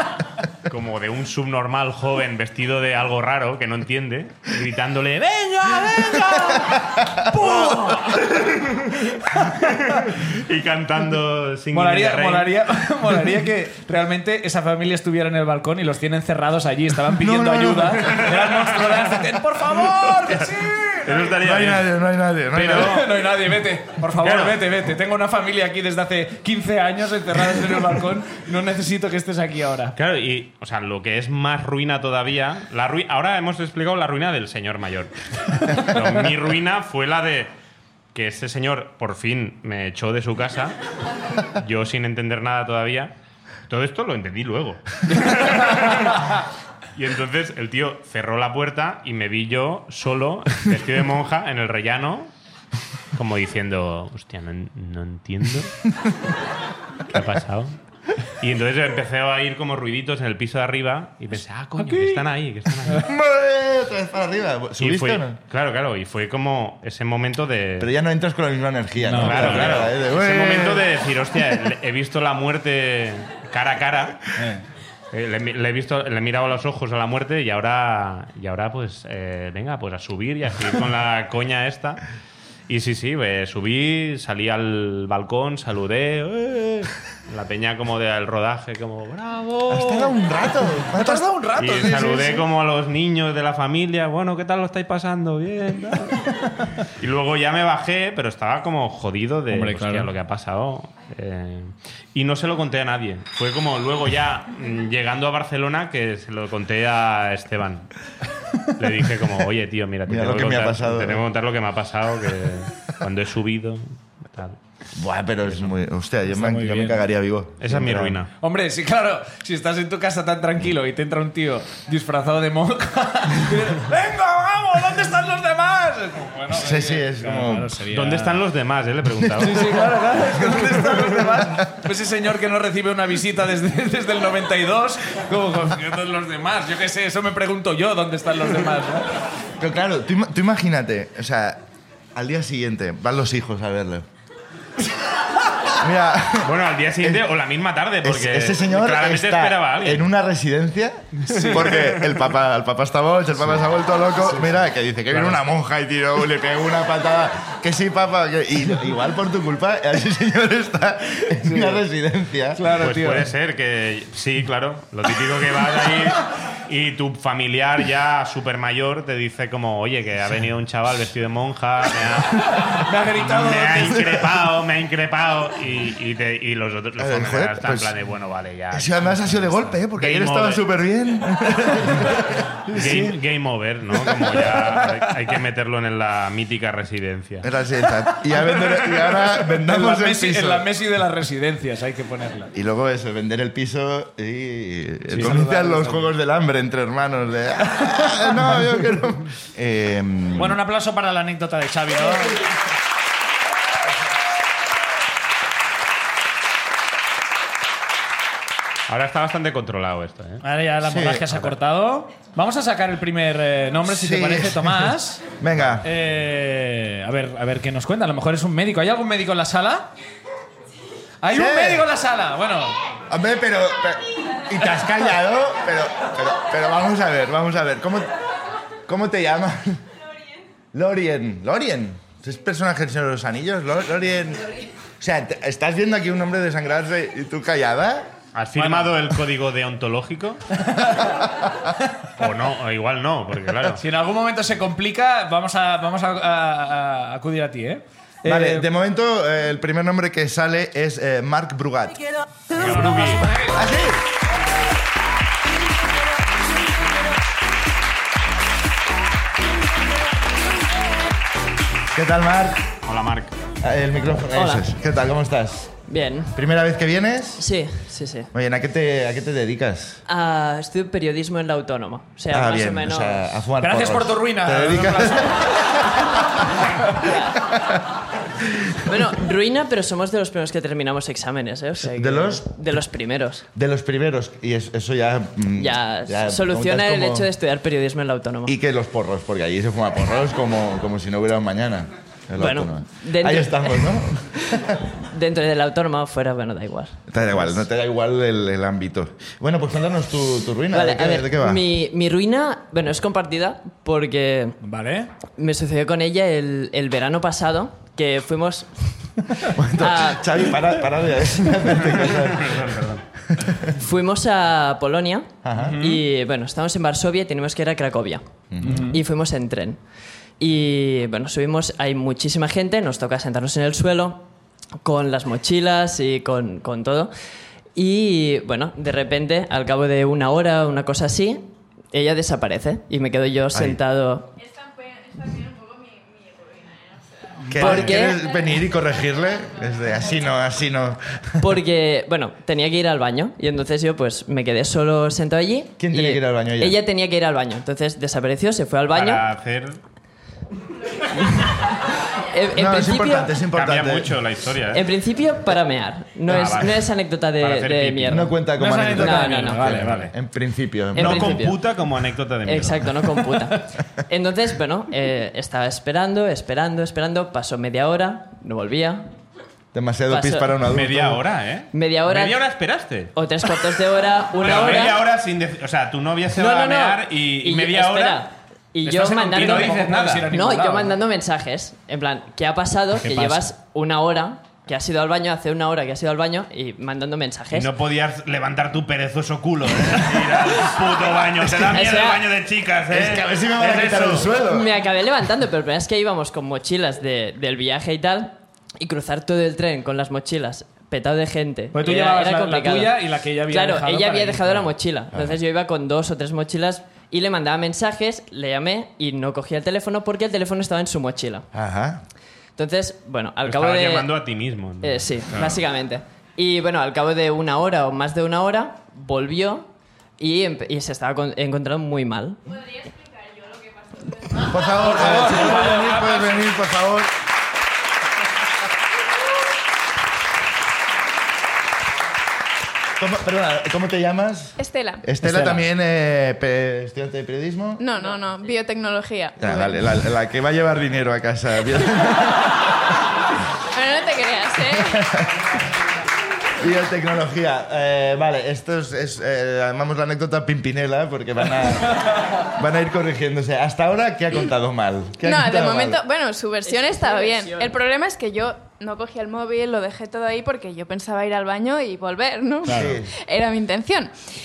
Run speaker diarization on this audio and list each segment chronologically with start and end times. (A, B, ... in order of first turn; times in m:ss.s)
0:00.6-0:12.6 A
0:07.6-0:07.9 B
0:11.7-0:21.3 B
0:17.1-0:18.2 C
0:18.0-0:19.2 A
0:20.2-0:20.5 A
0:21.0-0:21.9 A
0:21.4-0:23.1 C
0:22.5-0:29.9 B
0:24.2-0:24.6 A
0:30.0-0:37.5 A
0:38.1-0:40.8 A
0:41.5-0:43.1 A
0:43.7-0:46.4 A
0:46.9-0:52.3 A
0:53.1-0:55.8 A
0:57.1-0:57.7 A
0:58.4-1:03.1 A
1:01.8-1:02.2 B
1:03.0-1:05.4 C
1:04.8-1:07.9 A
1:07.8-1:10.9 C
1:09.0-1:09.8 B
1:09.2-1:14.4 A
1:14.4-1:14.6 B
1:15.1-1:22.0 A
1:22.7-1:30.1 A
1:29.7-1:31.3 C
1:30.9-1:32.4 B
1:31.6-1:36.3 A
1:36.9-1:47.9 A
1:39.5-1:40.1 B
1:48.8-1:54.6 A
1:50.0-1:51.2 C
1:54.9-1:58.2 C
1:55.4-1:55.7 A
1:56.3-1:57.0 B
1:57.6-1:58.3 A
1:58.4-2:08.4 B
2:06.5-2:07.8 C
2:07.9-2:09.9 A
2:09.2-2:11.7 C
2:09.4-2:19.1 B
2:19.6-2:21.6 C
2:22.1-2:24.0 C
2:25.8-2:27.2 C
2:26.4-2:30.1 A
2:28.0-2:42.7 C
2:31.2-2:31.9 A
2:31.3-2:31.9 B
2:34.2-2:35.4 B
2:41.4-2:41.8 B
2:42.5-2:43.3 B
2:42.8-3:00.6 A
2:52.7-2:54.0 B
2:54.0-2:54.3 C
2:57.0-2:57.9 C
2:58.7-3:02.9 C
3:02.7-3:03.2 B
3:02.7-3:07.5 A
3:04.1-3:05.1 B
3:07.4-3:10.7 C
3:08.3-3:12.5 B
3:12.5-3:20.6 C
3:15.1-3:16.1 B
3:18.1-3:18.7 B
3:20.4-3:22.4 B
3:28.9-3:30.4 A
3:30.4-3:35.2 B
3:30.8-3:31.3 C
3:33.8-3:35.9 C
3:35.8-3:39.9 B
3:41.2-3:42.8 B
3:41.3-3:41.9 C
3:43.1-3:48.1 C
3:48.9-3:49.8 C
3:50.7-3:58.1 C
3:58.3-4:00.4 A
3:58.6-3:59.0 B
4:00.6-4:01.2 B
4:02.2-4:03.8 A
4:03.8-4:08.6 B
4:08.2-4:12.0 C
4:12.5-4:13.3 A
4:12.5-4:13.6 B
4:13.5-4:14.0 C
4:21.9-4:22.6 C
4:22.8-4:23.4 A
4:23.6-4:25.7 C
4:24.3-4:24.7 D
4:25.9-4:26.4 D
4:26.3-4:27.4 C
4:27.4-4:28.3 D
4:28.3-4:30.0 C
4:30.1-4:33.3 D
4:32.3-4:36.0 C
4:33.6-4:35.8 B
4:37.0-4:37.5 D
4:38.8-4:43.4 D
4:41.8-4:42.6 C
4:43.5-4:47.3 C
4:45.6-4:48.5 D
4:48.4-4:54.8 C
4:52.4-4:57.4 D
4:57.1-5:01.6 C
5:00.7-5:04.6 D
5:04.6-5:05.1 B
5:05.4-5:10.7 D
5:09.5-5:13.7 C
5:11.9-5:13.0 A
5:13.7-5:19.8 D
5:15.4-5:15.8 C
5:15.5-5:16.0 B
5:18.5-5:18.9 C
5:18.6-5:19.0 B
5:20.4-5:24.3 D
5:24.8-5:27.1 D
5:27.7-5:34.3 D
5:33.5-5:33.8 C
5:34.8-5:36.8 E
5:37.5-5:41.4 C
5:37.5-5:37.8 B
5:37.5-5:38.2 D
5:41.4-5:49.2 D
5:45.8-5:46.8 C
5:48.9-5:49.8 A
5:51.1-5:51.7 D
5:52.3-5:53.4 D
5:52.5-5:54.2 C
5:53.5-5:54.9 A
5:54.7-5:59.8 D
5:56.3-5:58.3 A
5:58.1-6:01.4 C
5:58.6-6:00.1 B
5:59.7-6:00.1 A
6:00.9-6:01.6 D
6:00.9-6:03.1 A
6:02.4-6:09.1 D
6:09.7-6:11.2 C
6:10.1-6:10.6 D
6:10.6-6:13.1 A
6:11.7-6:12.4 D
6:13.1-6:15.0 D
6:14.4-6:18.2 A
6:14.4-6:15.0 B
6:16.3-6:27.7 D
6:18.8-6:20.9 B
6:19.4-6:20.3 A
6:23.0-6:23.5 B
6:27.5-6:34.3 A
6:31.6-6:32.3 D
6:32.9-6:34.7 C
6:34.4-6:51.5 D
6:41.7-6:44.7 B
6:45.1-6:45.4 C
6:51.5-6:52.0 C
6:52.6-6:54.2 D
6:53.4-6:55.6 A
6:54.8-7:02.4 D
7:04.4-7:07.1 C
7:04.7-7:06.4 B
7:13.0-7:17.8 C
7:14.6-7:15.0 E
7:15.2-7:15.6 B
7:17.8-7:19.8 E
7:19.4-7:22.8 C
7:23.7-7:25.1 E
7:24.7-7:25.6 C
7:26.6-7:36.0 C
7:35.2-7:44.2 E
7:36.6-7:37.7 D
7:42.6-7:43.0 B
7:42.7-7:43.1 C